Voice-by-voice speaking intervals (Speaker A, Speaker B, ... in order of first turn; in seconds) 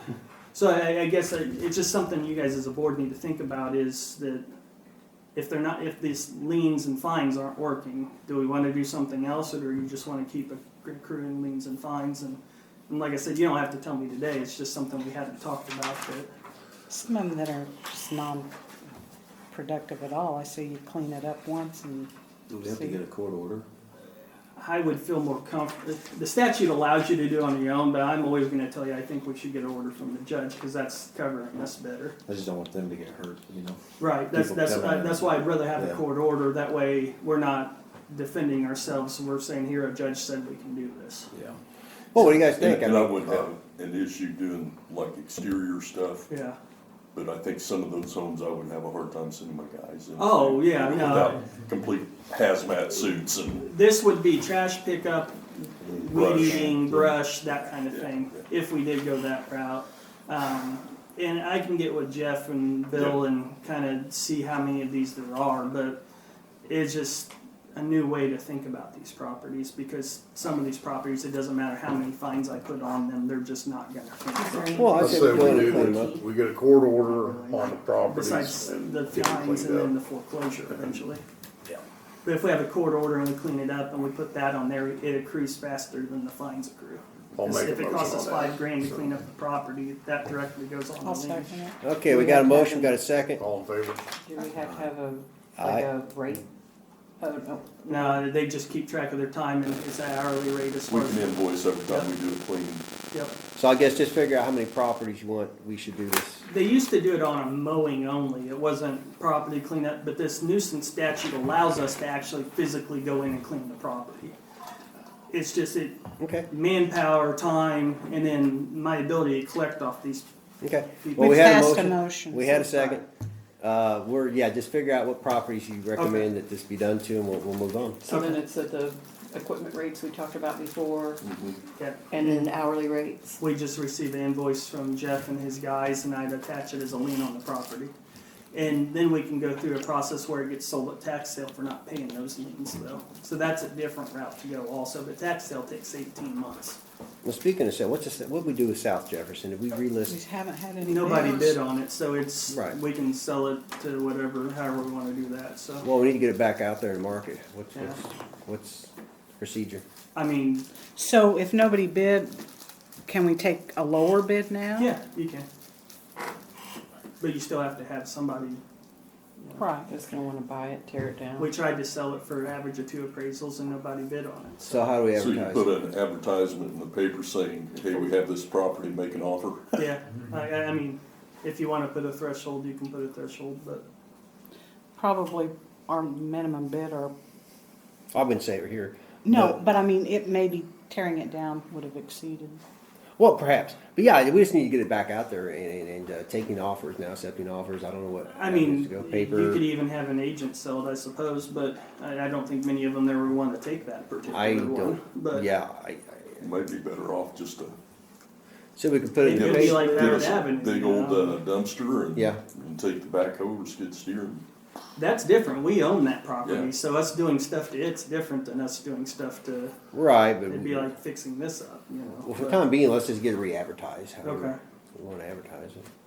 Speaker A: 0.5-4.5, 5.3-16.3, 24.6-32.2, 34.0-41.3, 46.3-46.6, 50.2-51.4, 53.5-66.0, 66.7-76.0, 76.9-81.2, 82.2-91.6, 97.9-102.1, 106.5-114.3, 115.3-120.3, 121.0-121.8, 126.0-126.3, 128.1-128.4, 131.8-132.5, 133.4-137.9, 138.5-146.8, 150.8-155.9, 157.7-158.0, 160.2-160.7, 164.8-165.5, 167.2-168.6, 171.4-174.8, 179.8-183.8, 198.3-205.5, 209.2-211.4, 215.0-219.8, 220.5-222.6, 224.2-224.6
Speaker B: 16.9-18.5, 19.5-22.1, 91.0-92.7, 121.4-123.0, 150.1-151.5, 161.0-162.4, 163.1-164.9, 169.6-169.8, 185.0-187.1, 189.2-192.6
Speaker C: 22.5-23.7, 32.2-36.0, 41.3-41.6, 55.8-57.2
Speaker D: 42.1-43.5, 74.8-76.2, 91.8-93.4, 95.6-95.9, 103.6-106.4, 116.2-116.5, 120.6-123.0, 123.6-128.0, 147.2-150.2, 152.5-152.8, 155.8-159.8, 174.6-175.7, 188.1-189.6, 193.2-199.7, 204.3-206.4, 208.8-210.4, 219.9-220.9, 222.2-225.9
Speaker E: 42.2-46.3, 47.1-53.7, 56.1-56.8, 57.9-58.4, 62.9-63.2, 100.9-102.8, 131.2-131.6, 175.1-179.8, 206.4-207.8, 209.2-214.4, 216.4-216.7
Speaker F: 74.3-76.2, 94.2-96.5, 97.2-98.2, 128.0-131.2, 132.1-133.4, 169.9-171.5
Speaker G: 75.0-79.9, 87.4-88.6, 93.4-94.0